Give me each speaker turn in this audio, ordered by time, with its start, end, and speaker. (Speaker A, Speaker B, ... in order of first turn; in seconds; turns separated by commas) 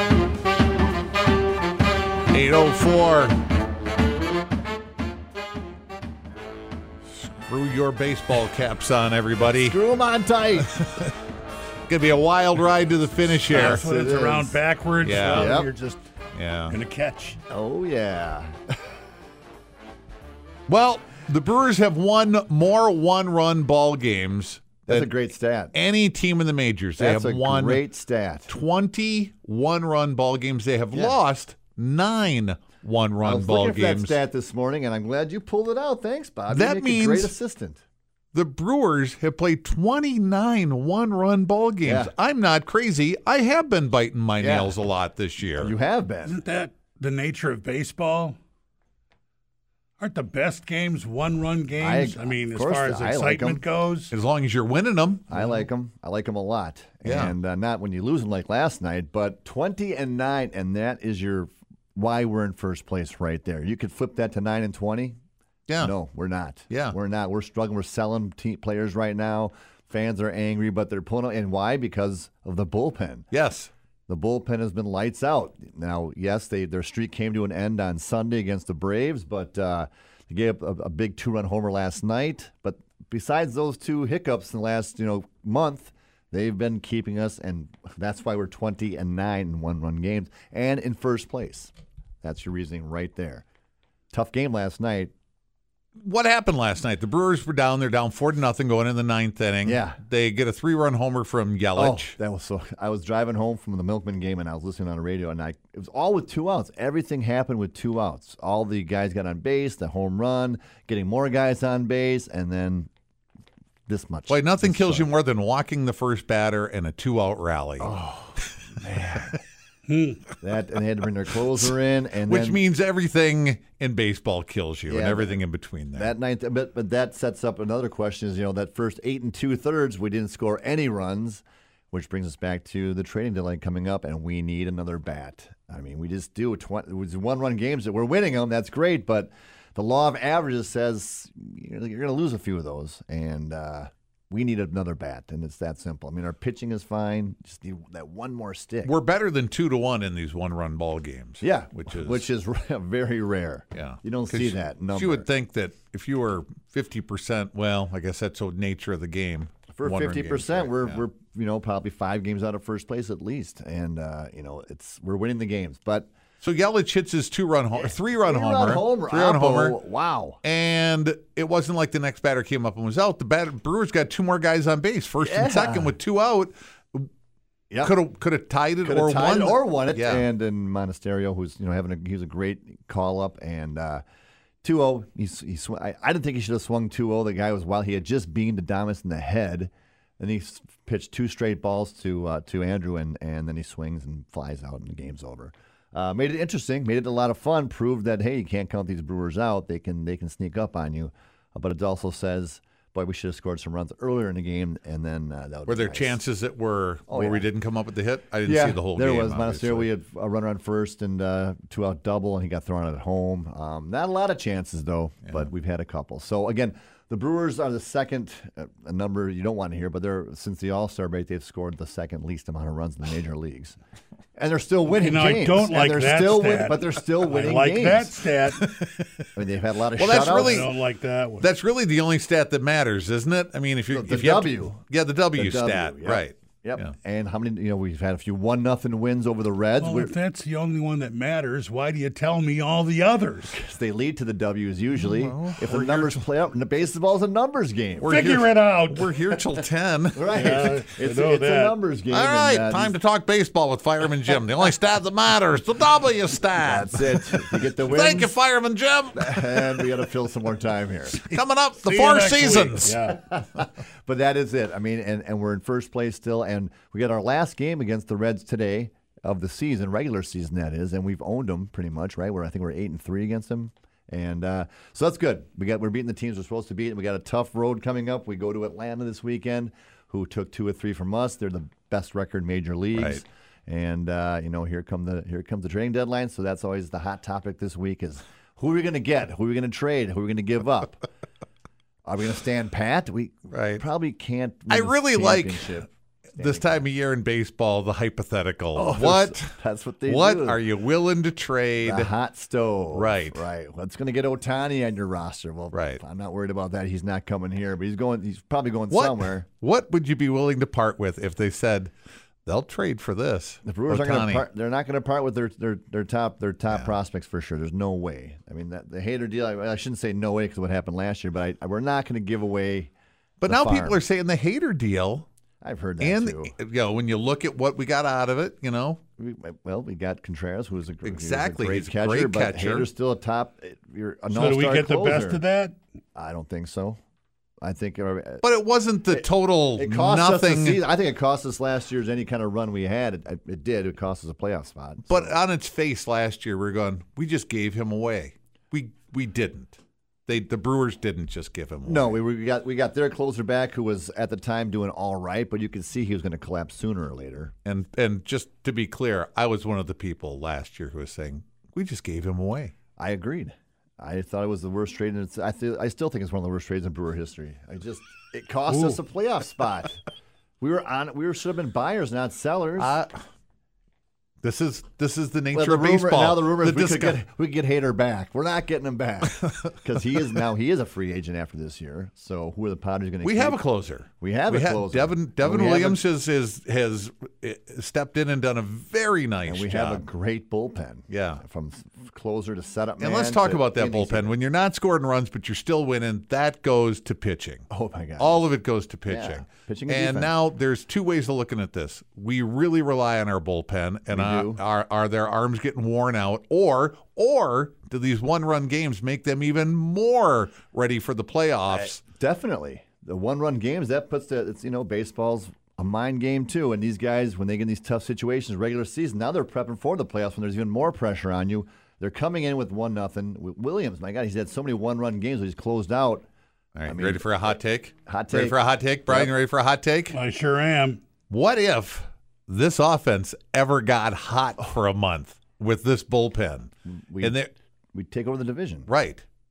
Speaker A: 2.3-3.4, Speaker A: 7.1-9.8, Speaker B: 9.6-10.7, Speaker A: 10.6-11.1, Speaker A: 11.9-13.8, Speaker C: 13.5-16.0, Speaker B: 13.5-14.6, Speaker A: 15.0-15.6, Speaker B: 15.2-15.7, Speaker A: 16.3-16.8, Speaker C: 16.7-17.4, Speaker B: 17.5-18.7, Speaker A: 20.7-25.1, Speaker B: 24.9-25.7, Speaker A: 25.7-27.9, Speaker B: 27.0-28.5, Speaker A: 28.5-34.2, Speaker B: 30.9-31.2, Speaker B: 33.2-37.8, Speaker A: 36.5-37.3, Speaker A: 38.3-45.7, Speaker B: 41.8-42.1, Speaker B: 44.4-44.8, Speaker B: 45.6-46.4, Speaker C: 46.2-48.4, Speaker C: 50.0-54.1, Speaker B: 51.8-53.6, Speaker A: 54.1-55.3, Speaker B: 55.3-65.2, Speaker A: 57.0-57.3, Speaker A: 65.7-65.9, Speaker B: 65.8-73.3, Speaker A: 66.7-67.0, Speaker A: 73.3-73.7, Speaker B: 74.1-91.7, Speaker B: 92.2-93.4, Speaker B: 94.1-95.1, Speaker A: 96.0-102.1, Speaker B: 99.6-100.0, Speaker B: 101.7-112.9, Speaker B: 113.9-115.1, Speaker A: 114.3-117.9, Speaker B: 117.8-119.4, Speaker C: 119.9-120.2, Speaker B: 120.4-122.6, Speaker A: 122.2-126.1, Speaker B: 124.9-148.9, Speaker A: 148.8-152.3, Speaker B: 151.4-155.3, Speaker A: 153.7-161.0, Speaker B: 159.7-166.1, Speaker A: 166.4-169.8, Speaker B: 167.7-170.4, Speaker A: 170.4-177.1, Speaker B: 175.2-175.9, Speaker B: 177.7-178.0, Speaker A: 177.8-180.2, Speaker B: 178.8-184.0, Speaker B: 184.6-206.2, Speaker A: 205.7-209.9, Speaker B: 207.1-207.5, Speaker B: 208.4-223.8, Speaker B: 224.3-228.1, Speaker C: 224.9-228.7, Speaker A: 228.5-229.3, Speaker B: 229.3-230.7, Speaker A: 229.9-230.8, Speaker C: 230.1-231.5, Speaker A: 231.4-236.9, Speaker B: 233.9-234.8, Speaker B: 235.3-240.1, Speaker C: 239.8-243.6, Speaker B: 243.5-248.2, Speaker A: 244.9-246.2, Speaker A: 248.0-250.4, Speaker C: 248.0-249.1, Speaker B: 250.1-253.0, Speaker C: 250.3-251.8, Speaker A: 252.1-259.9, Speaker B: 256.6-258.4, Speaker B: 259.1-261.3, Speaker A: 261.2-263.0, Speaker C: 261.8-263.2, Speaker B: 263.1-291.0, Speaker A: 282.9-283.2, Speaker B: 292.0-296.8, Speaker A: 293.5-293.8, Speaker A: 294.7-295.8, Speaker A: 296.4-302.1, Speaker B: 298.7-300.6, Speaker B: 301.8-309.4, Speaker A: 302.9-303.4, Speaker A: 305.7-306.0, Speaker A: 308.9-311.9, Speaker A: 312.4-314.4, Speaker B: 313.6-322.9, Speaker A: 316.7-316.9, Speaker A: 323.4-325.3, Speaker B: 323.4-324.0, Speaker B: 325.6-326.5, Speaker A: 326.0-329.0, Speaker B: 329.2-335.4, Speaker A: 331.0-332.9, Speaker C: 334.3-335.8, Speaker B: 336.1-337.0, Speaker B: 337.6-338.4, Speaker A: 338.4-340.8, Speaker B: 339.8-345.4, Speaker A: 345.1-352.2, Speaker B: 351.9-357.5, Speaker A: 357.6-362.7, Speaker B: 363.0-370.0, Speaker B: 370.6-373.0, Speaker A: 372.8-373.2, Speaker A: 374.4-377.2, Speaker B: 375.5-383.6, Speaker A: 383.2-390.1, Speaker B: 384.2-386.0, Speaker B: 389.4-394.3, Speaker A: 391.1-391.4, Speaker A: 393.0-397.6, Speaker B: 397.7-398.4, Speaker A: 398.2-412.0, Speaker B: 399.1-400.3, Speaker B: 404.1-404.6, Speaker B: 411.7-426.2, Speaker A: 426.7-430.2, Speaker B: 426.8-427.3, Speaker B: 428.1-429.3, Speaker C: 430.1-431.0, Speaker A: 431.3-436.7, Speaker B: 436.9-437.4, Speaker A: 437.2-437.5, Speaker B: 437.9-438.9, Speaker A: 438.9-439.2